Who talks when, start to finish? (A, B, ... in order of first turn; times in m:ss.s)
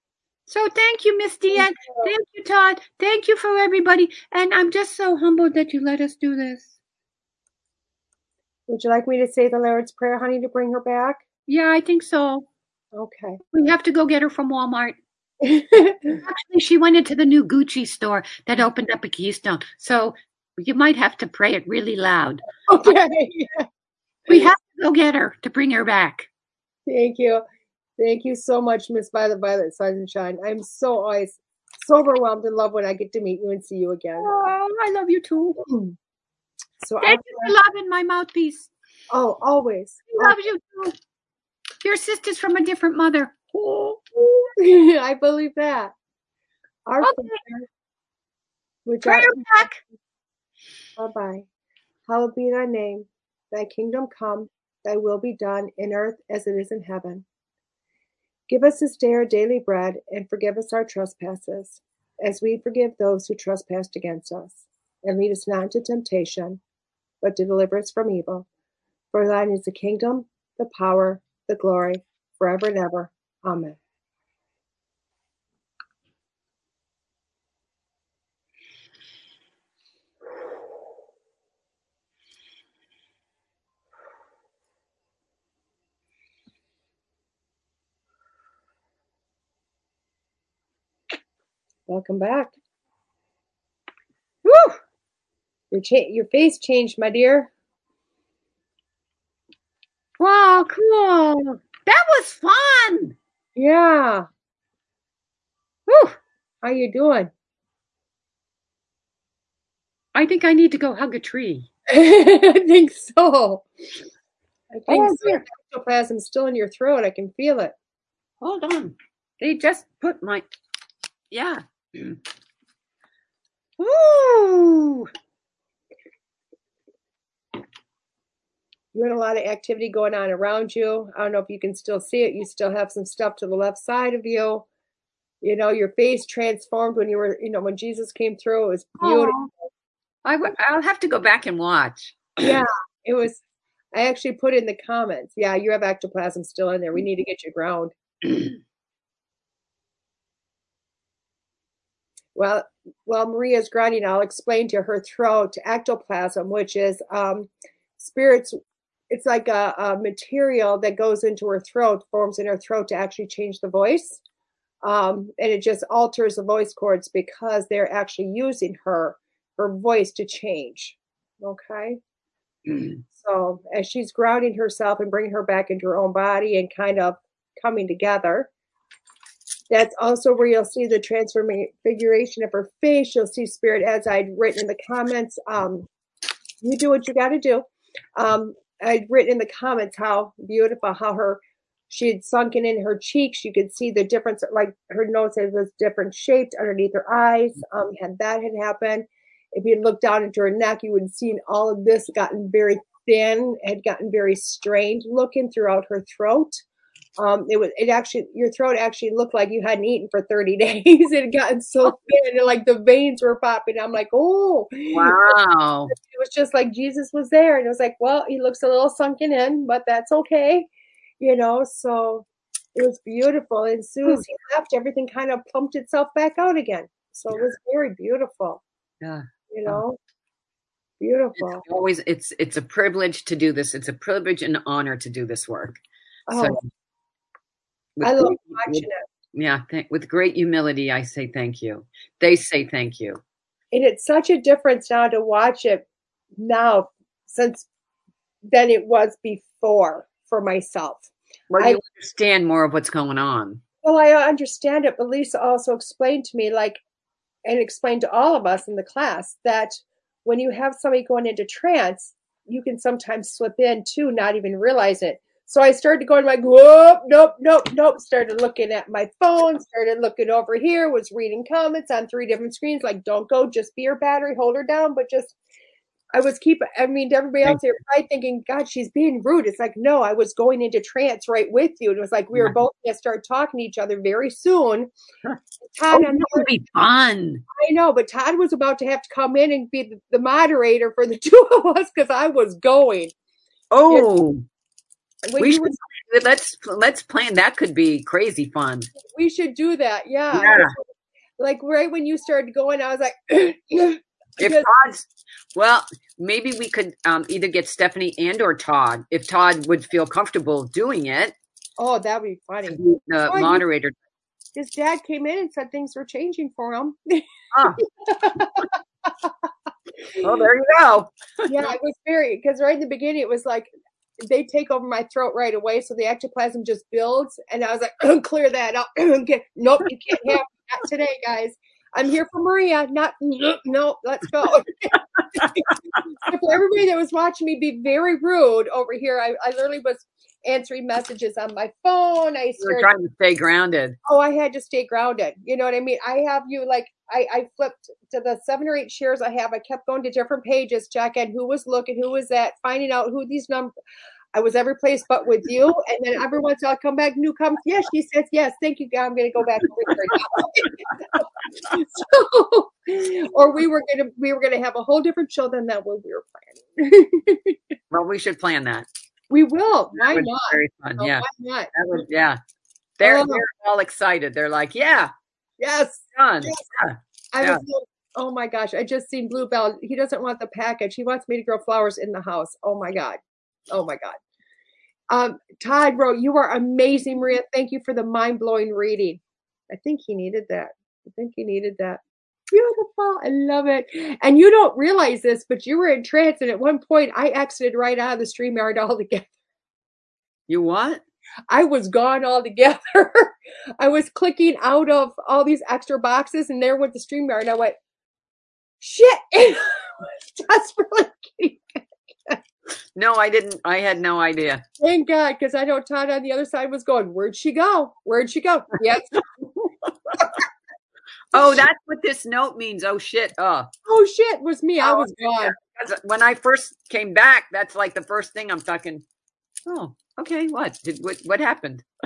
0:00.5-0:06.8 A
0:01.5-0:02.1 B
0:08.7-0:11.2 B
0:11.4-0:12.5 A
0:12.9-0:13.4 B
0:13.5-0:15.0 A
0:15.4-0:16.2 B
0:16.2-0:22.4 A
0:22.7-0:23.6 B
0:24.3-0:26.3 A
0:26.9-0:27.4 B
0:28.0-0:34.3 B
0:34.2-0:35.6 A
0:35.6-0:35.9 B
0:36.8-0:37.6 B
0:37.0-0:38.7 A
0:39.1-0:40.4 B
0:40.1-0:40.9 A
0:41.8-0:43.4 A
0:43.5-0:45.9 B
0:46.8-0:47.7 B
0:47.0-0:47.4 A
0:48.8-0:49.7 B
0:49.0-0:49.8 A
0:51.0-0:51.4 B
0:52.1-0:57.2 B
0:58.5-1:06.6 B
1:07.2-1:08.4 B
1:09.1-1:13.8 B
1:31.9-1:32.5 B
1:34.4-1:34.8 A
1:35.7-1:37.5 B
1:40.2-1:43.2 A
1:43.6-1:44.3 B
1:45.9-1:46.2 A
1:46.6-1:47.3 B
1:50.1-1:51.7 A
1:51.9-1:53.6 B
1:54.7-1:57.7 B
1:54.9-1:55.4 A
1:58.4-2:00.5 A
2:01.3-2:02.2 A
2:03.8-2:05.1 A
2:08.9-2:14.6 B
2:15.4-2:19.4 B
2:19.0-2:19.5 A
2:20.2-2:22.2 C
2:22.4-2:23.4 B
2:23.9-2:27.9 B
2:32.4-2:38.6 B
2:39.1-2:44.2 B
2:44.8-2:52.0 B
2:53.1-2:58.5 B
2:59.7-3:05.9 B
3:06.6-3:26.6 B
3:27.2-3:40.7 B
3:34.9-3:35.9 C
3:41.2-3:48.6 B
3:49.0-3:49.8 C
3:49.5-3:50.0 B
3:51.0-3:51.6 B
3:51.4-3:56.7 C
3:56.3-3:56.6 B
3:58.0-4:03.2 C
3:58.0-3:59.0 B
4:03.7-4:05.8 B
4:06.4-4:07.7 B
4:08.5-4:11.8 B
4:11.5-4:13.6 C
4:13.8-4:16.8 B
4:17.4-4:35.4 B
4:36.1-4:44.9 B
4:45.6-4:46.5 B
4:45.9-4:47.4 A
4:47.5-4:53.1 B
4:53.7-4:54.4 C
4:55.2-4:55.8 B
4:55.4-4:58.9 C
4:59.1-5:00.8 B
5:00.3-5:00.7 C
5:01.4-5:04.7 B
5:04.4-5:11.4 C
5:11.8-5:13.6 B
5:12.7-5:13.9 C
5:14.6-5:17.2 B
5:17.5-5:17.8 C
5:17.8-5:19.3 B
5:20.2-5:21.7 C
5:21.5-5:23.7 B
5:24.2-5:42.9 B
5:42.6-5:44.0 C
5:44.0-5:53.7 B
5:54.3-6:07.6 B
6:07.9-6:08.9 C
6:09.3-6:11.7 B
6:09.9-6:12.4 C
6:13.0-6:15.1 C
6:13.0-6:13.4 B
6:15.6-6:16.6 B
6:16.1-6:17.6 C
6:17.3-6:23.2 B
6:23.7-6:24.2 B
6:25.1-6:32.0 B
6:32.5-6:39.3 B
6:40.5-6:41.0 C
6:41.5-6:47.8 B
6:48.8-6:51.6 B
6:53.0-6:54.6 C
6:54.8-6:59.2 B
7:01.3-7:03.7 C
7:03.9-7:05.6 B
7:04.8-7:09.0 C
7:09.6-7:11.8 C